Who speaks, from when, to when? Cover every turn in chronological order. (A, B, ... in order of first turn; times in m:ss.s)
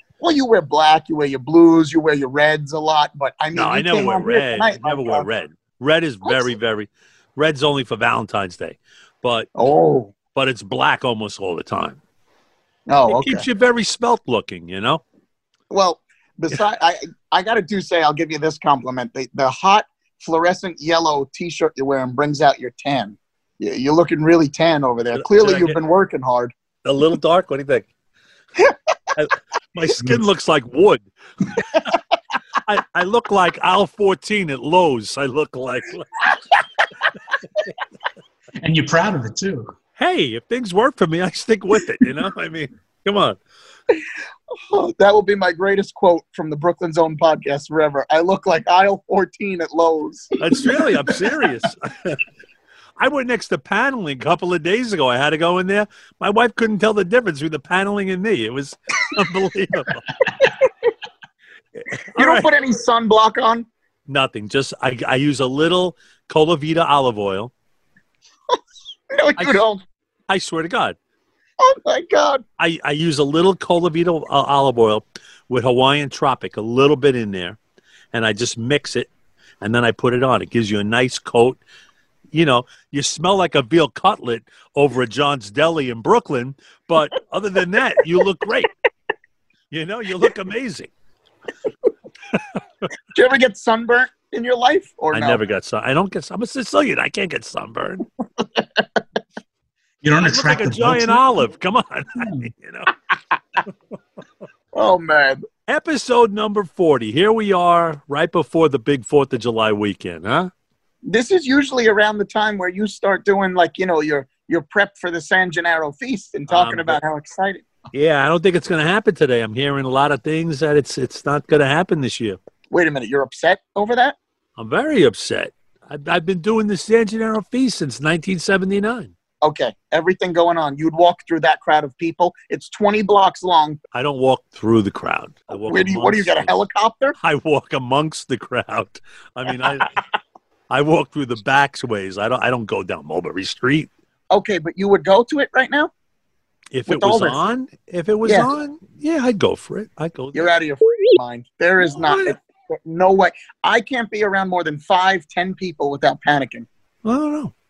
0:00.2-0:05.2 A
0:03.5-0:09.5 B
0:09.6-0:10.1 A
0:10.3-0:12.0 B
0:12.9-0:13.4 A
0:13.1-0:15.0 B
0:15.7-0:26.5 A
0:25.1-0:25.8 B
0:26.8-0:27.9 B
0:29.2-0:31.1 B
0:32.6-0:36.2 B
0:38.6-0:39.7 C
0:40.0-0:43.4 B
0:44.7-0:50.7 A
0:50.4-0:52.2 B
0:53.0-1:00.1 B
1:00.4-1:00.7 A
1:01.8-1:02.5 B
1:02.2-1:03.7 A
1:04.1-1:07.5 B
1:09.1-1:09.8 A
1:09.4-1:09.6 B
1:10.3-1:11.0 B
1:11.6-1:12.4 A
1:12.6-1:17.6 B
1:18.1-1:19.1 B
1:19.6-1:21.6 B
1:22.3-1:28.7 B
1:29.7-1:30.9 B
1:33.1-1:35.4 A
1:35.1-1:38.0 B
1:38.6-1:38.8 A
1:40.0-1:41.2 C
1:40.2-1:42.9 B
1:42.2-1:42.5 C
1:44.7-1:45.4 A
1:45.7-1:50.5 B
1:51.1-1:57.6 A
1:56.5-1:57.0 B
1:57.9-2:02.4 B
2:02.7-2:04.2 A
2:04.6-2:09.1 B
2:09.4-2:13.8 A
2:13.9-2:16.6 B
2:15.7-2:17.1 A
2:17.2-2:19.9 B
2:20.7-2:23.9 B
2:24.3-2:25.9 A
2:26.7-2:30.5 B
2:26.9-2:27.4 A
2:30.3-2:36.7 A
2:31.8-2:32.4 B
2:37.0-2:37.5 B